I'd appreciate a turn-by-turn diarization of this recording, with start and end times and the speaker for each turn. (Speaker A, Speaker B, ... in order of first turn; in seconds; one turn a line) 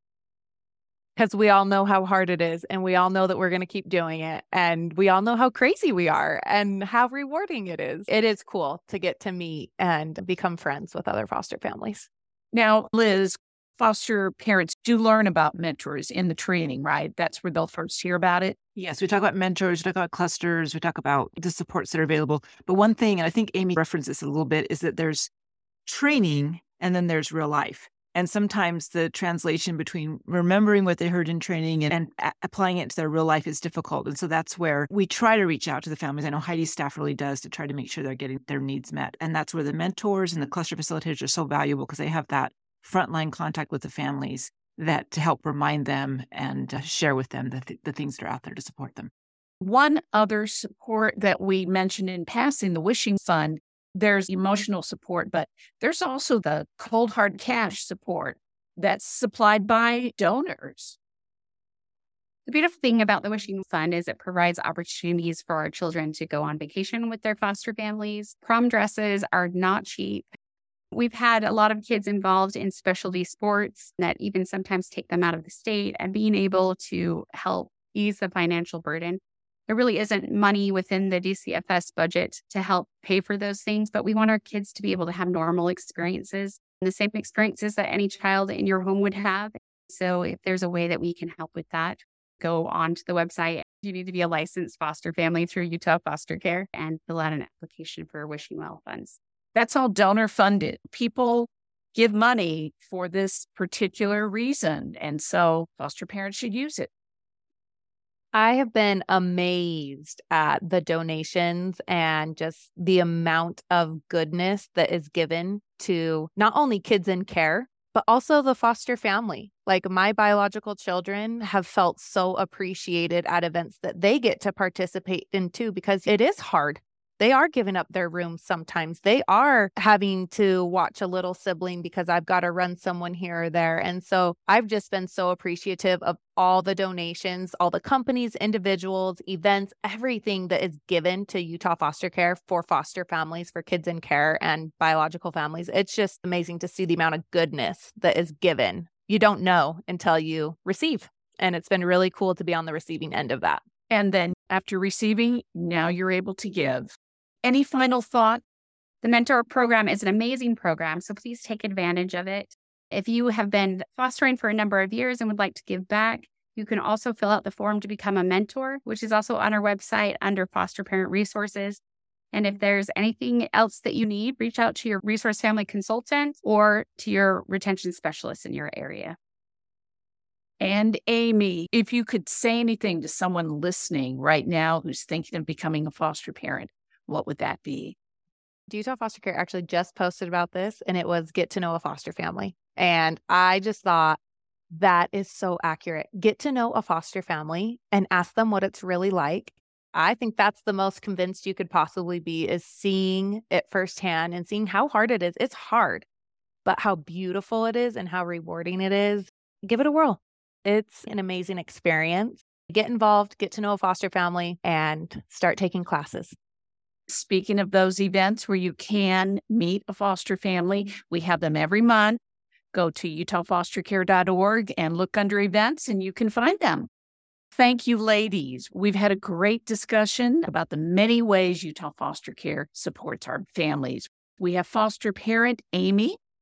Speaker A: 1.1-12.1
Speaker B: 12.5-18.6
Speaker C: 18.7-25.3
Speaker C: 25.9-49.1
Speaker B: 49.6-61.0
Speaker D: 62.5-70.3
Speaker D: 70.9-99.2
Speaker B: 99.5-106.9
Speaker A: 108.3-153.6
Speaker B: 153.9-158.4
Speaker D: 159.0-171.8
Speaker D: 172.3-179.2
Speaker B: 180.6-187.9
Speaker A: 188.7-194.2
Speaker A: 194.7-206.1
Speaker A: 206.6-216.3
Speaker B: 217.1-222.2
Speaker B: 222.7-226.9
Speaker B: 227.5-236.2